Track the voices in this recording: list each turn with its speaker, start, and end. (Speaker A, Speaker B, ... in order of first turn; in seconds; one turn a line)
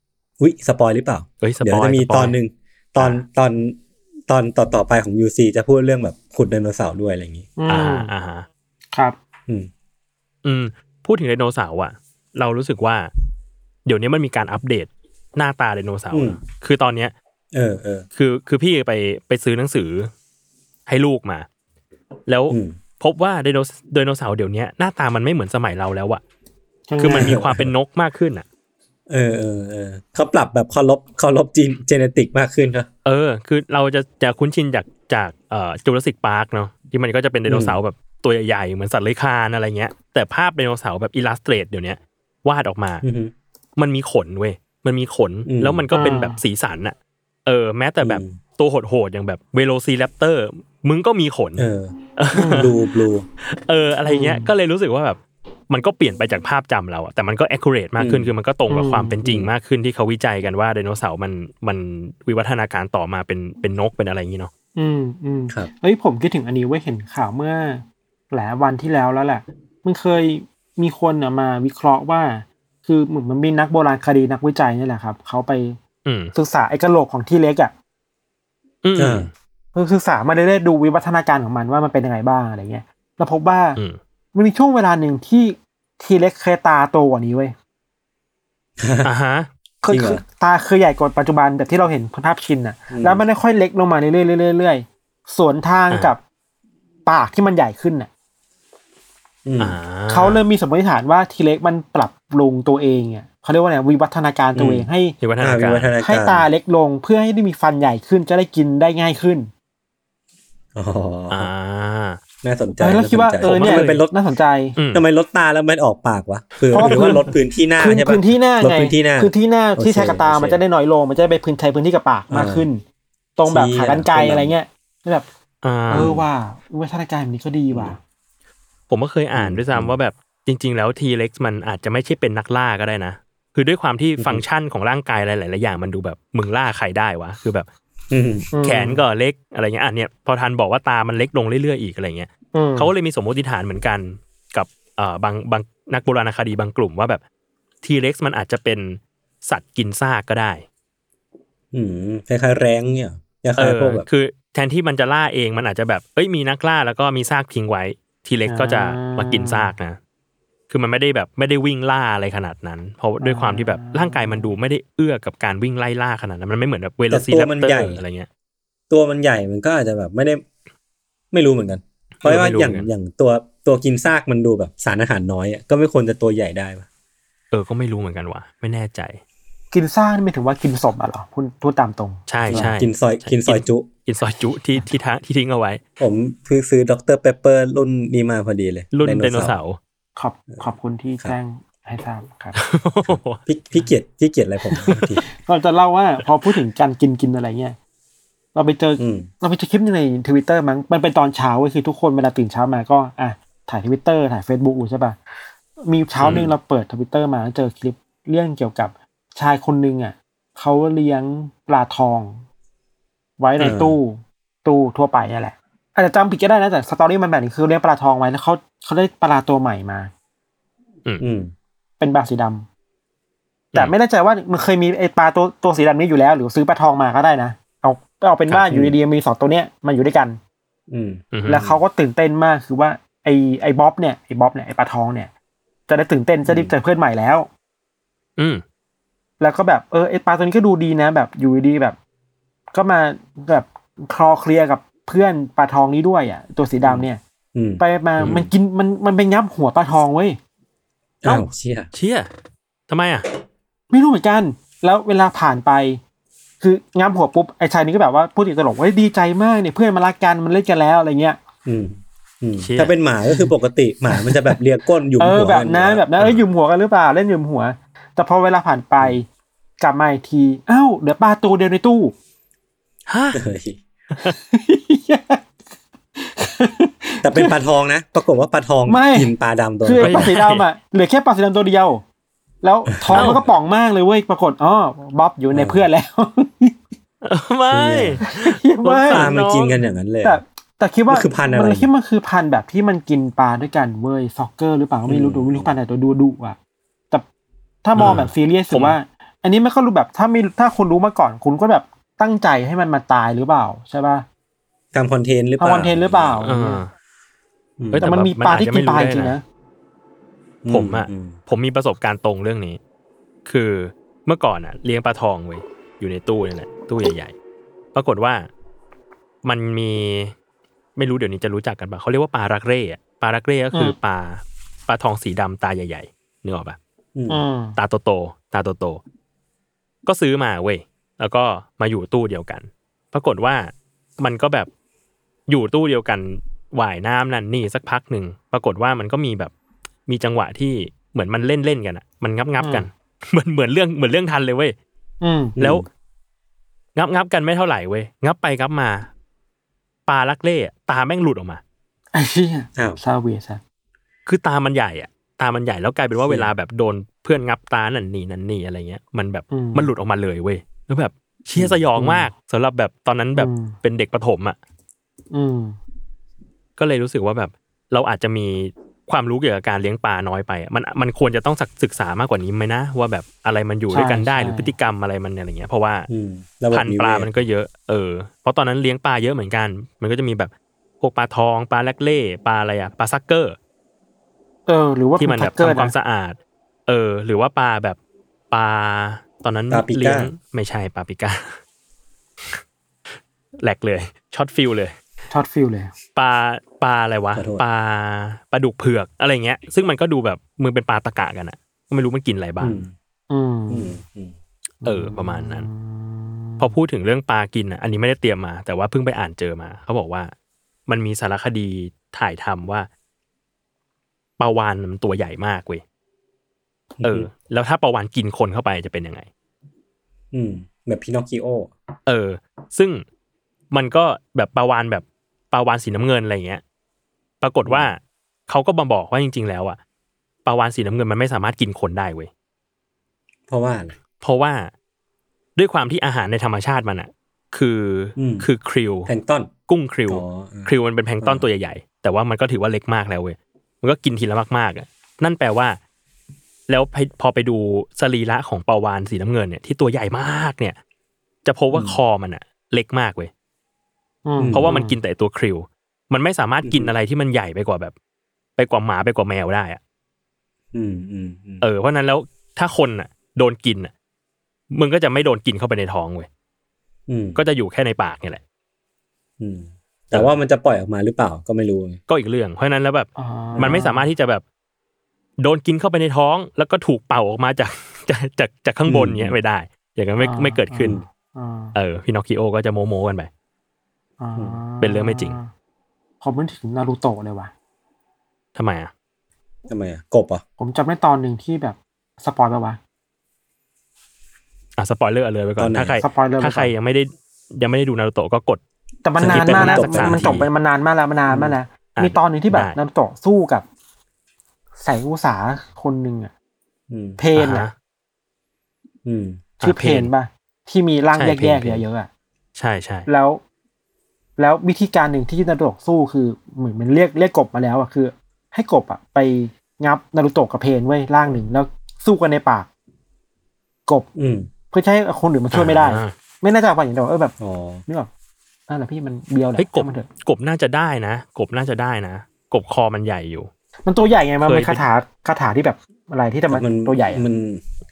Speaker A: 0.4-7.8
Speaker B: 1.4-2.3
Speaker C: 7.6-8.1
Speaker B: 7.7-8.5
Speaker B: 10.4-13.1
Speaker B: 13.8-17.1
Speaker A: 16.1-16.4
Speaker A: 17.5-18.1
Speaker B: 18.2-20.1
Speaker B: 20.9-21.4
Speaker B: 22.3-26.2
Speaker A: 22.5-22.8
Speaker C: 26.9-27.4
Speaker A: 27.0-27.7
Speaker B: 27.0-28.4
Speaker A: 29.1-32.9
Speaker B: 33.0-43.0
Speaker A: 37.5-37.8
Speaker A: 43.0-43.3
Speaker B: 43.8-46.9
Speaker A: 45.5-45.8
Speaker C: 45.9-46.4
Speaker B: 47.5-52.7
Speaker A: 48.0-48.3
Speaker A: 51.6-51.9
Speaker C: 52.3-52.7
Speaker A: 52.5-53.2
Speaker B: 53.4-55.2
Speaker C: 54.0-54.5
Speaker B: 55.7-64.5
Speaker A: 58.0-58.3
Speaker C: 58.7-59.2
Speaker A: 59.2-59.5
Speaker C: 64.8-75.8
Speaker B: 76.0-76.3
Speaker C: 76.3-77.7
Speaker B: 78.8-79.3
Speaker A: 79.0-79.3
Speaker C: 79.7-83.8
Speaker C: 84.3-87.5
Speaker A: 88.8-89.1
Speaker B: 89.0-89.5
Speaker C: 89.8-96.2
Speaker A: 89.9-90.2
Speaker A: 92.9-93.2
Speaker C: 97.0-98.1
Speaker A: 99.4-99.8
Speaker B: 99.6-100.4
Speaker C: 100.1-105.2
Speaker A: 104.5-104.9
Speaker B: 105.2-105.9
Speaker A: 105.4-106.5
Speaker C: 106.0-109.5
Speaker A: 110.7-111.5
Speaker B: 111.3-112.2
Speaker A: 112.4-114.1
Speaker C: 112.8-114.8
Speaker B: 113.4-114.0
Speaker B: 114.8-115.0
Speaker A: 114.9-120.6
Speaker C: 116.7-117.2
Speaker B: 116.8-117.1
Speaker C: 117.8-122.8
Speaker A: 122.3-122.7
Speaker C: 123.4-125.2
Speaker A: 123.5-124.5
Speaker B: 125.6-126.1
Speaker C: 125.9-128.0
Speaker A: 125.9-126.2
Speaker A: 127.7-128.0
Speaker B: 128.9-137.7
Speaker A: 129.3-129.9
Speaker A: 134.2-134.4
Speaker A: 138.1-138.5
Speaker C: 138.5-139.0
Speaker B: 138.6-147.2
Speaker C: 142.5-142.9
Speaker B: 147.8-150.6
Speaker A: 151.7-154.1
Speaker B: 153.6-160.0
Speaker C: 158.5-159.7
Speaker B: 160.7-168.3
Speaker C: 163.2-164.5
Speaker A: 167.1-168.0
Speaker A: 168.9-170.4
Speaker A: 171.3-176.8
Speaker B: 172.2-172.9
Speaker B: 177.5-179.2
Speaker C: 179.7-182.7
Speaker B: 182.3-185.8
Speaker A: 182.5-183.9
Speaker A: 186.0-189.6
Speaker B: 188.9-189.8
Speaker C: 190.2-192.6
Speaker B: 192.5-193.4
Speaker A: 193.0-195.2
Speaker C: 194.8-197.8
Speaker C: 198.5-205.2
Speaker A: 199.0-199.3
Speaker C: 205.8-212.4
Speaker B: 206.2-206.5
Speaker C: 213.4-220.1
Speaker A: 213.6-214.0
Speaker A: 221.2-221.5
Speaker C: 222.0-222.7
Speaker C: 223.8-230.4
Speaker A: 228.7-228.9
Speaker A: 230.9-231.2
Speaker B: 231.3-231.7
Speaker C: 231.4-235.3
Speaker C: 235.9-237.5
Speaker A: 236.4-236.7
Speaker B: 238.4-238.6
Speaker C: 239.4-242.0
Speaker C: 242.7-247.2
Speaker A: 246.8-248.5
Speaker C: 247.8-250.4
Speaker A: 251.2-251.9
Speaker B: 251.9-252.3
Speaker B: 252.9-253.3
Speaker C: 253.9-256.0
Speaker C: 256.6-261.4
Speaker A: 261.6-266.1
Speaker B: 262.6-262.9
Speaker C: 264.1-264.5
Speaker C: 265.2-269.3
Speaker C: 269.8-272.1
Speaker B: 273.1-273.4
Speaker A: 273.3-273.8
Speaker C: 274.2-275.4
Speaker C: 276.1-277.6
Speaker A: 277.2-280.3
Speaker C: 278.9-282.0
Speaker B: 280.0-280.6
Speaker C: 282.6-286.8
Speaker A: 282.9-283.5
Speaker B: 283.1-283.4
Speaker A: 285.5-285.9
Speaker B: 287.2-289.7
Speaker A: 287.7-288.2
Speaker C: 288.2-289.3
Speaker A: 289.1-290.4
Speaker C: 290.2-296.6
Speaker A: 291.1-291.9
Speaker A: 295.1-295.7
Speaker C: 297.8-304.2
Speaker B: 298.0-298.9
Speaker A: 304.9-306.5
Speaker C: 305.6-306.8
Speaker B: 306.4-306.9
Speaker A: 307.8-308.1
Speaker B: 307.9-309.4
Speaker C: 308.0-309.4
Speaker A: 310.6-311.4
Speaker B: 310.7-312.8
Speaker B: 313.4-317.3
Speaker B: 317.9-318.5
Speaker B: 319.4-320.3
Speaker B: 320.9-326.8
Speaker A: 327.1-327.4
Speaker C: 327.3-327.8
Speaker B: 327.8-329.0
Speaker B: 330.1-334.7
Speaker B: 335.5-339.5
Speaker B: 340.1-344.8
Speaker C: 342.6-342.9
Speaker C: 345.2-345.5
Speaker A: 345.6-345.9
Speaker B: 345.6-345.8
Speaker B: 346.9-349.1
Speaker B: 350.1-351.6
Speaker C: 352.1-353.6
Speaker B: 354.2-364.6
Speaker A: 356.2-356.5
Speaker C: 359.5-359.9
Speaker C: 362.0-362.2
Speaker C: 363.4-363.7
Speaker C: 365.3-365.8
Speaker B: 366.8-376.1
Speaker C: 373.9-374.7
Speaker A: 376.1-377.3
Speaker B: 376.7-383.6
Speaker C: 384.7-385.9
Speaker B: 385.2-388.0
Speaker B: 388.5-391.6
Speaker A: 389.7-390.3
Speaker B: 393.6-394.9
Speaker C: 395.3-395.9
Speaker B: 396.1-402.8
Speaker A: 397.3-397.6
Speaker A: 402.6-402.9
Speaker C: 403.3-404.0
Speaker A: 403.7-404.4
Speaker C: 404.8-406.7
Speaker B: 404.8-405.7
Speaker B: 406.6-410.3
Speaker B: 410.9-412.9
Speaker B: 414.4-415.8
Speaker A: 417.0-417.3
Speaker B: 417.0-419.3
Speaker A: 420.3-421.7
Speaker B: 422.1-423.0
Speaker B: 423.7-426.6
Speaker B: 427.4-429.8
Speaker B: 430.4-432.3
Speaker A: 433.5-433.9
Speaker B: 434.2-434.7
Speaker B: 435.6-439.1
Speaker A: 438.2-438.5
Speaker A: 439.1-439.5
Speaker B: 439.7-445.8
Speaker A: 440.1-440.7
Speaker B: 446.7-450.8
Speaker B: 451.4-453.3
Speaker A: 451.7-452.0
Speaker C: 454.2-454.9
Speaker A: 454.4-454.7
Speaker B: 454.5-457.9
Speaker A: 456.6-456.9
Speaker B: 458.6-459.8
Speaker A: 460.7-461.6
Speaker B: 461.6-463.9
Speaker B: 464.7-466.3
Speaker A: 467.1-467.4
Speaker B: 467.4-468.4
Speaker A: 469.4-472.0
Speaker B: 472.1-474.4
Speaker C: 473.2-474.1
Speaker B: 475.4-481.0
Speaker A: 478.9-479.4
Speaker C: 480.2-481.8
Speaker B: 481.7-483.3
Speaker C: 484.2-485.5
Speaker B: 484.8-485.4
Speaker C: 486.2-487.5
Speaker B: 488.6-488.9
Speaker A: 489.7-490.4
Speaker C: 490.6-492.8
Speaker B: 494.8-498.6
Speaker A: 495.6-496.0
Speaker C: 496.0-496.7
Speaker C: 499.0-503.6
Speaker A: 499.2-500.5
Speaker B: 499.2-500.5
Speaker A: 501.3-501.5
Speaker B: 501.9-502.8
Speaker C: 504.8-506.3
Speaker A: 506.9-507.2
Speaker C: 507.2-507.7
Speaker B: 507.4-507.7
Speaker A: 509.0-509.5
Speaker B: 509.6-510.1
Speaker C: 509.6-512.1
Speaker B: 511.1-511.8
Speaker B: 512.5-513.1
Speaker C: 513.1-513.4
Speaker C: 514.4-522.7
Speaker A: 524.1-524.5
Speaker C: 524.7-527.3
Speaker B: 525.5-526.1
Speaker A: 527.4-527.8
Speaker C: 528.7-530.1
Speaker B: 529.6-533.5
Speaker C: 533.9-537.2
Speaker B: 534.4-534.8
Speaker A: 536.5-537.6